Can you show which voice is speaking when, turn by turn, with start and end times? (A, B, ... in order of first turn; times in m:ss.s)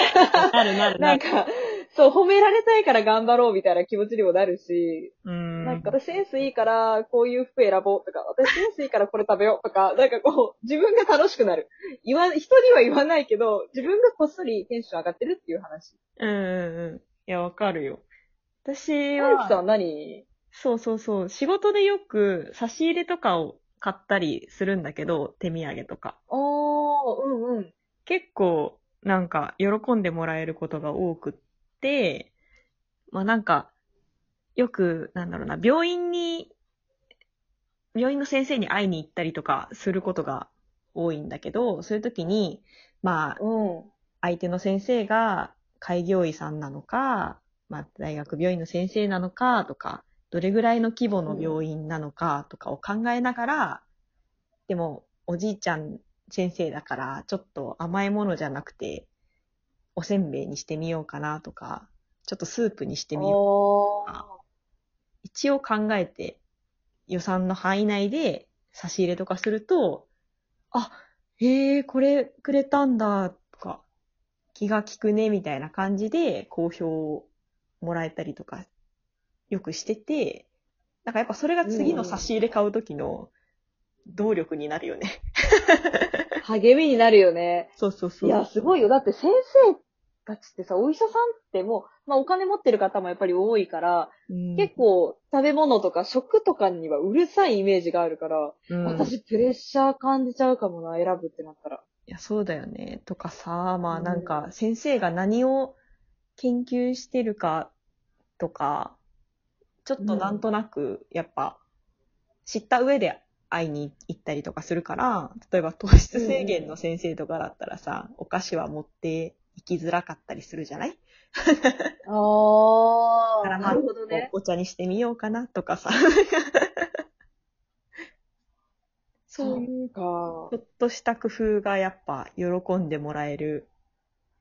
0:00.3-0:15.9 A
0:00.3-0:01.2 B
0:05.2-0:05.9 B
0:16.2-0:18.0 B
0:18.6-0:19.6 B
0:19.2-0:20.2 A
0:20.5-0:26.2 B
0:26.3-0:27.7 A
0:28.0-0:32.3 B
0:33.1-0:33.7 B
0:34.6-0:36.5 B
0:37.9-0:43.4 B
0:43.4-0:43.9 A
0:44.2-0:53.8 B
0:51.2-0:51.6 A
0:54.7-0:59.1 B
1:00.0-1:03.4 B
1:03.2-1:04.3 A
1:05.2-1:06.4 B
1:07.1-1:10.0 B
1:10.7-1:13.8 B
1:14.5-1:17.3 B
1:17.8-1:18.7 B
1:19.5-1:20.5 B
1:21.0-1:23.3 B
1:21.6-1:22.2 A
1:24.1-1:26.0 B
1:26.4-1:27.7 A
1:27.8-1:28.4 B
1:28.2-1:41.8 A
1:34.3-1:34.7 B
1:38.7-1:39.1 B
1:42.1-1:45.8 B
1:43.9-1:44.5 A
1:46.4-1:47.7 B
1:48.4-1:49.0 B
1:49.8-1:51.6 B
1:50.0-1:50.4 A
1:52.4-2:01.9 B
1:56.1-1:56.7 A
2:02.0-2:04.3 A
2:03.4-2:06.8 B
2:09.3-2:09.6 B
2:09.4-2:10.5 A
2:10.5-2:13.7 B